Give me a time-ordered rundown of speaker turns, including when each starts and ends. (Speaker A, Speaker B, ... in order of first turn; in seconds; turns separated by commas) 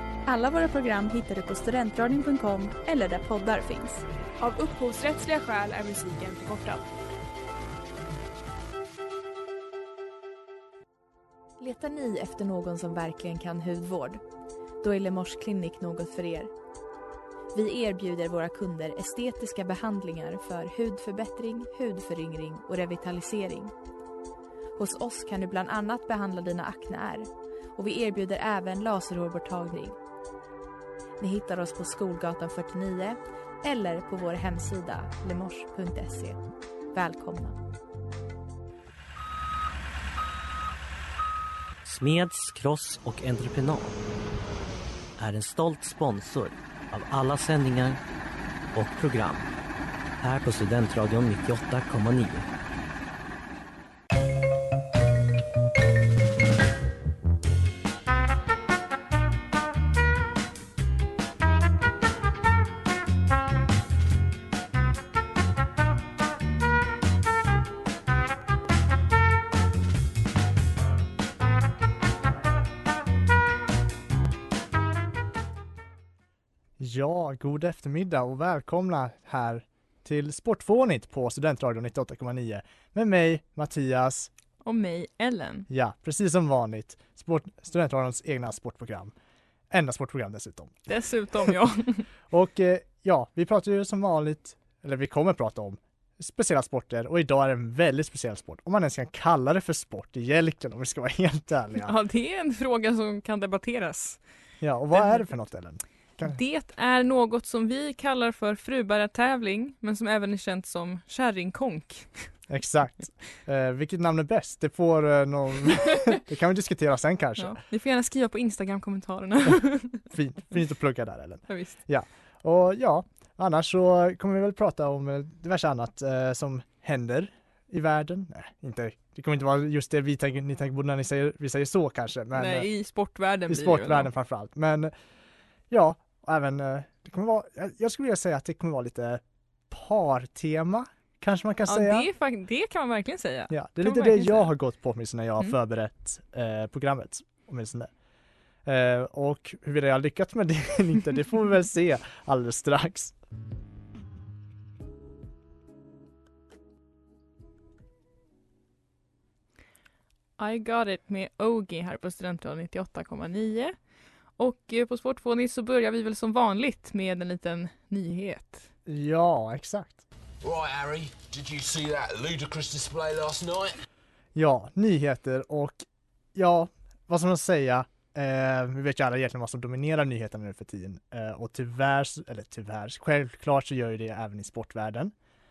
Speaker A: 0.3-4.0, Speaker B: 4.4-6.9, Speaker A: 11.6-14.2, Speaker A: 14.8-16.5, Speaker A: 17.5-23.7, Speaker A: 24.8-30.0, Speaker A: 31.2-37.6, Speaker C: 41.9-44.0, Speaker C: 45.2-48.0, Speaker C: 48.7-49.5, Speaker C: 50.2-52.5, Speaker D: 76.8-84.3, Speaker E: 84.7-85.7, Speaker D: 85.7-89.1, Speaker D: 89.7-90.8, Speaker E: 90.9-92.1, Speaker D: 92.3-101.9, Speaker E: 101.8-104.2, Speaker D: 104.6-106.4, Speaker E: 104.9-105.3, Speaker E: 106.2-112.3, Speaker D: 112.5-117.6, Speaker E: 117.4-120.0, Speaker D: 120.0-132.7, Speaker E: 121.5-121.8, Speaker E: 132.3-134.1, Speaker D: 133.5-134.9, Speaker D: 135.7-142.1, Speaker E: 141.7-144.5, Speaker D: 143.5-147.9, Speaker D: 148.7-153.1, Speaker E: 160.4-163.8, Speaker E: 164.4-168.7, Speaker D: 168.9-170.0, Speaker F: 170.4-173.8, Speaker D: 174.3-185.1